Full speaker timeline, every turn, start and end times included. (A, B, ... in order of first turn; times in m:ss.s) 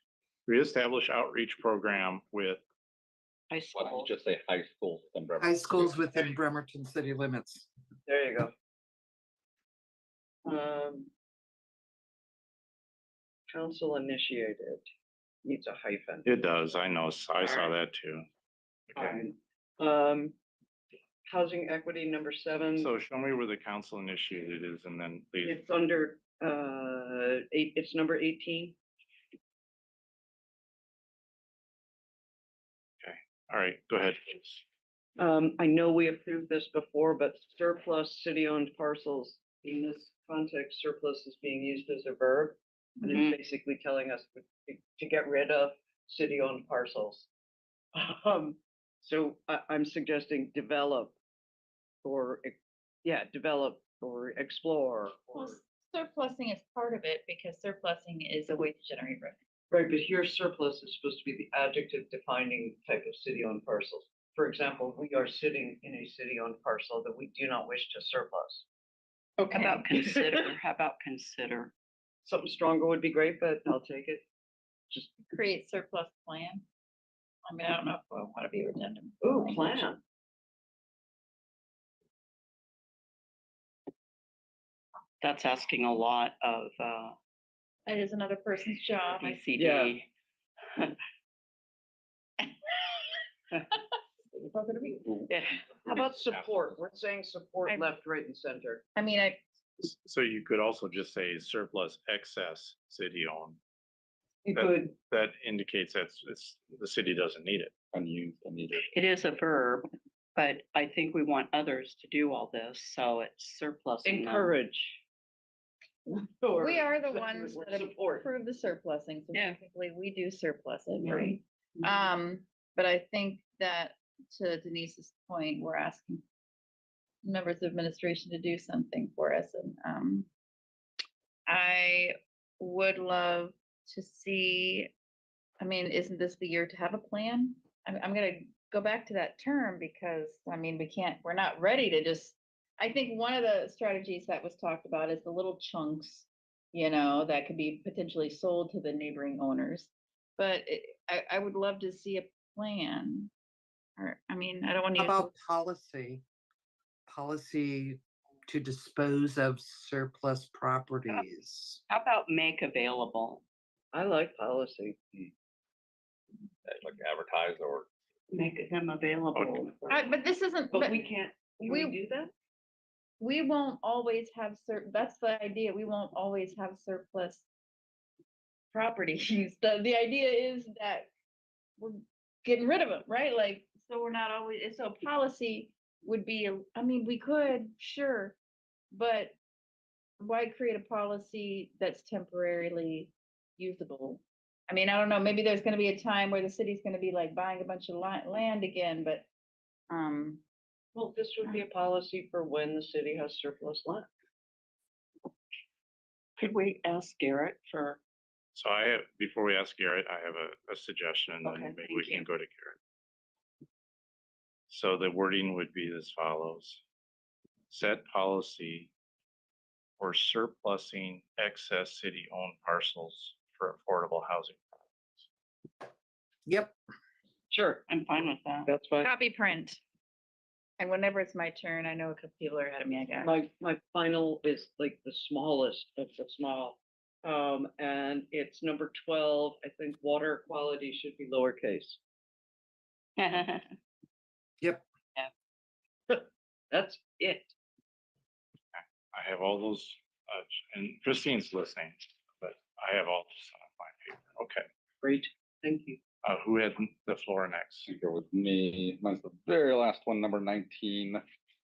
0:00.5-0:02.6 A
0:03.5-0:04.1 B
0:03.7-0:06.2 C
0:05.4-0:07.7 D
0:08.1-0:08.5 E
0:10.4-0:11.1 E
0:13.5-0:14.8 E
0:15.4-0:16.3 E
0:16.2-0:18.3 A
0:17.4-0:17.7 E
0:18.9-0:19.2 A
0:19.0-0:20.4 E
0:21.3-0:22.9 E
0:22.8-0:25.6 A
0:25.4-0:28.8 E
0:33.0-0:34.6 A
0:35.2-0:47.3 E
0:43.1-0:43.4 B
0:48.0-0:51.2 E
0:52.0-0:55.6 E
0:55.4-0:59.4 F
0:59.7-1:08.6 E
1:09.4-1:10.3 F
1:09.5-1:11.7 B
1:12.2-1:14.2 E
1:15.3-1:16.6 F
1:17.4-1:19.9 F
1:19.2-1:20.0 E
1:25.2-1:27.2 B
1:27.9-1:29.4 F
1:29.0-1:30.1 B
1:29.6-1:30.0 E
1:34.3-1:35.3 F
1:35.3-1:35.6 B
1:35.8-1:36.6 A
1:35.8-1:38.8 E
1:39.0-1:39.4 F
1:39.8-1:43.6 A
1:44.4-1:45.0 E
1:44.6-1:47.7 A
1:47.9-1:48.8 C
1:48.9-1:54.5 B
1:54.0-1:55.0 E
1:56.1-1:58.3 E
1:56.6-2:06.2 F
1:59.3-1:59.6 B
2:01.0-2:02.0 B
2:07.2-2:10.3 F
2:11.5-2:14.9 F
2:15.6-2:33.3 F
2:34.0-2:35.3 F
2:35.0-2:36.2 D
2:37.1-2:41.8 D
2:41.9-2:43.4 B
2:43.9-2:45.0 E
2:46.6-2:47.9 C
2:48.3-2:50.2 B
2:49.4-2:49.6 A
2:49.9-2:51.1 F
2:50.7-2:52.3 E
2:51.6-2:52.0 F
2:53.2-2:57.4 F
2:58.7-3:01.1 F
3:01.8-3:08.4 F
3:08.9-3:09.3 F
3:10.2-3:19.2 F
3:19.9-3:20.4 F
3:20.9-3:24.1 E
3:26.4-3:28.0 B
3:28.5-3:32.8 A
3:31.4-3:32.3 B
3:34.7-3:36.8 A
3:37.7-3:38.9 A
3:40.0-3:44.6 A
3:46.5-3:46.7 D
3:47.5-3:47.8 E
3:47.9-3:48.7 B
3:48.7-3:49.1 E
3:49.0-3:49.8 F
3:50.8-3:53.4 F
3:53.2-4:02.0 E
4:03.2-4:03.6 B
4:06.1-4:07.5 E
4:08.7-4:14.7 A
4:15.0-4:16.0 E
4:16.2-4:17.9 A
4:17.9-4:21.2 C